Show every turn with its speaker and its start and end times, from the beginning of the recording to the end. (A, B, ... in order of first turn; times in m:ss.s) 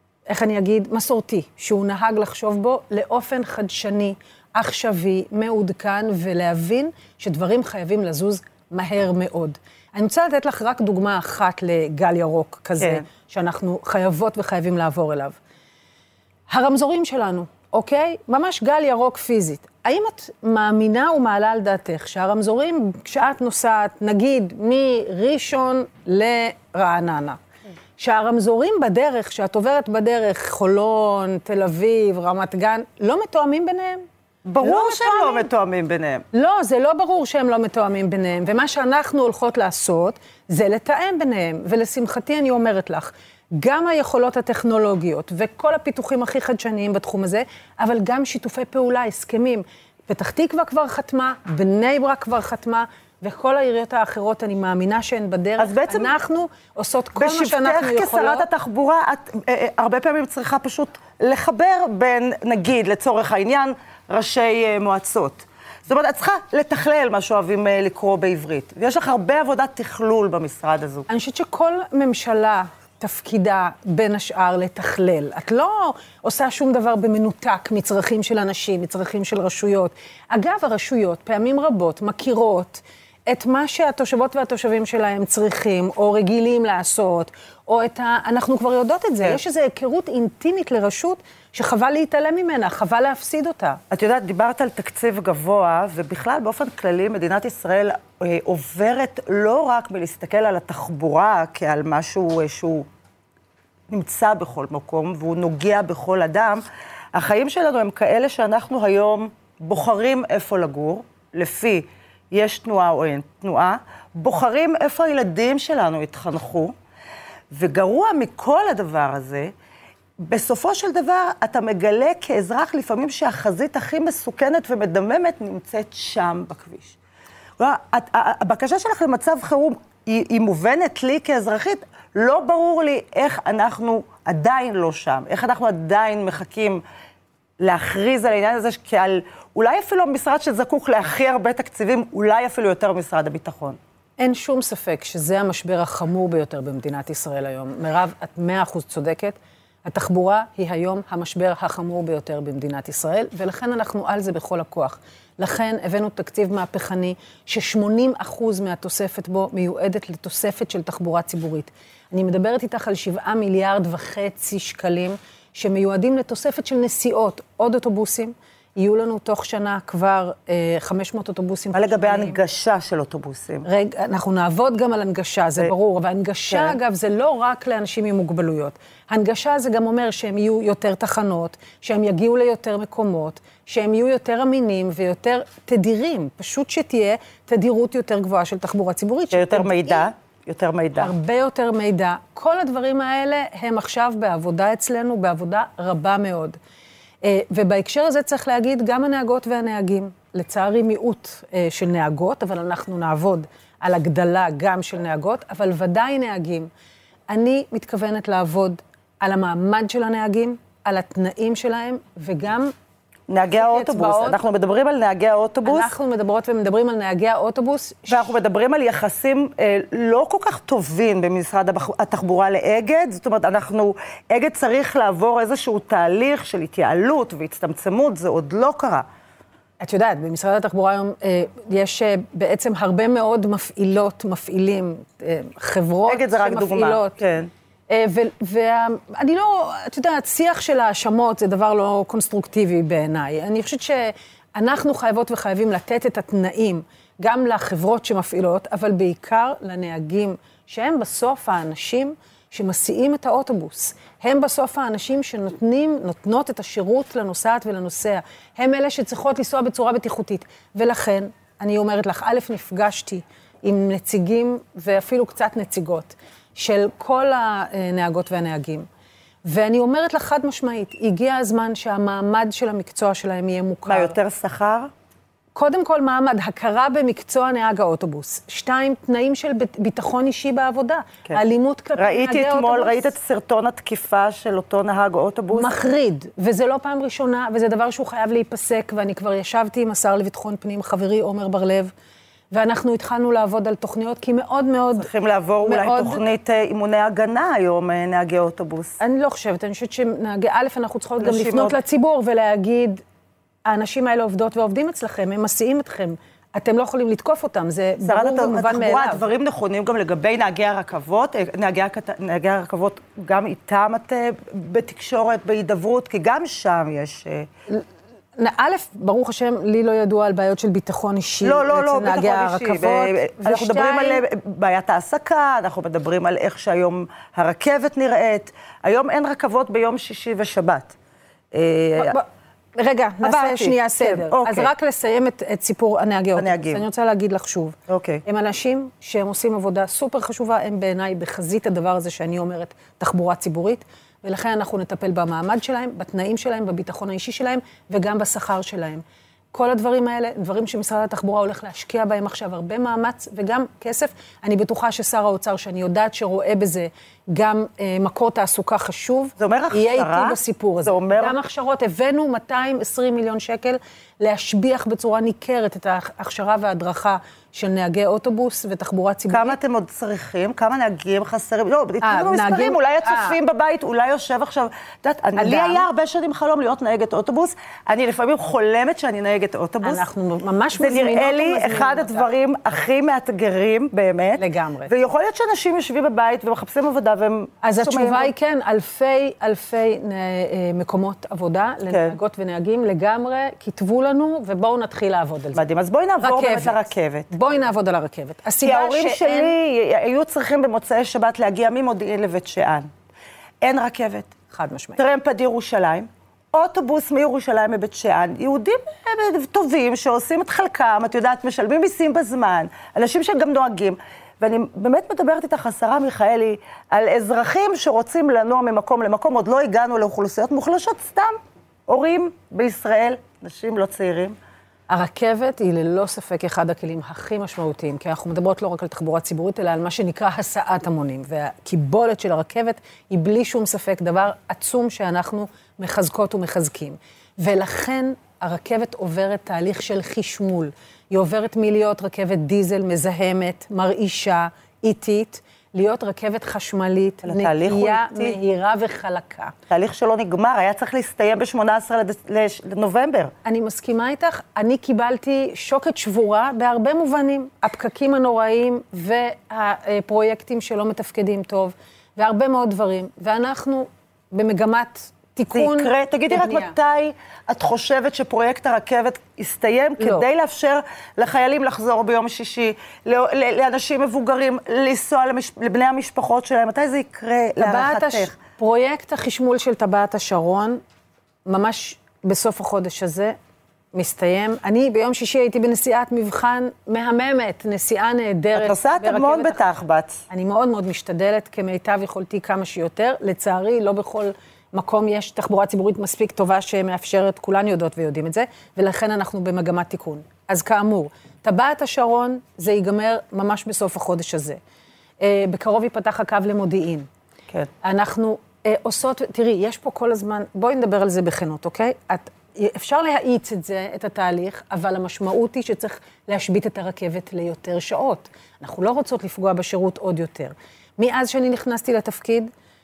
0:00.3-0:15.4 A
0:12.8-0:13.0 B
0:16.5-0:27.4 A
0:28.0-0:34.0 A
0:34.4-0:36.2 B
0:34.6-0:35.5 A
0:36.3-0:58.5 A
0:55.6-0:56.2 B
0:57.2-1:11.1 B
1:11.1-1:33.8 A
1:33.9-1:42.9 B
1:43.9-1:46.6 B
1:47.2-1:56.7 B
1:57.5-1:59.5 B
2:00.2-2:07.0 B
2:07.6-2:16.8 B
2:17.6-2:23.8 B
2:24.2-2:52.4 A
2:51.7-2:53.7 B
2:53.6-3:10.1 A
2:56.5-2:56.8 B
3:09.3-3:11.1 B
3:11.0-3:16.6 A
3:17.2-3:26.7 A
3:27.3-3:32.7 A
3:33.3-3:35.9 B
3:33.5-3:34.4 A
3:35.6-3:38.4 A
3:38.1-3:49.0 B
3:49.8-3:57.2 A
3:56.1-3:57.5 B
3:57.9-4:28.9 A
4:29.4-4:34.2 A
4:33.9-4:34.9 B
4:35.5-4:43.2 A
4:42.0-4:45.8 B
4:45.5-4:51.9 A
4:52.5-4:55.1 A
4:55.0-4:59.0 B
4:55.6-4:56.2 A
4:59.0-5:03.0 A
5:01.2-5:01.8 B
5:03.6-5:09.3 A
5:08.0-5:17.5 B
5:17.7-5:24.2 A
5:21.4-5:31.0 B
5:31.5-5:32.2 B
5:32.0-6:09.6 A
5:33.2-5:34.7 B
5:36.4-5:36.8 B
5:37.9-5:38.2 B
5:59.4-6:01.4 B
6:09.3-6:20.0 B
6:12.0-6:13.4 A
6:15.4-6:15.9 A
6:19.8-6:22.3 A
6:20.8-6:28.3 B
6:24.4-6:24.9 A
6:27.6-6:35.6 A
6:31.9-6:32.2 B
6:35.5-6:37.3 B
6:36.2-6:39.6 A
6:38.6-6:42.9 B
6:43.6-6:44.3 B
6:44.5-6:45.0 A
6:45.0-7:01.4 B
7:01.9-7:04.4 B
7:04.9-7:29.5 A
7:27.2-7:28.4 B
7:29.7-7:33.3 B
7:33.4-7:46.8 A
7:45.5-7:58.3 B
7:50.0-7:50.2 A
7:57.6-8:00.8 A
8:01.4-8:03.4 A
8:03.9-8:09.6 A
8:08.6-8:10.2 B
8:10.3-8:24.6 A
8:25.2-8:27.1 A
8:27.8-8:42.5 A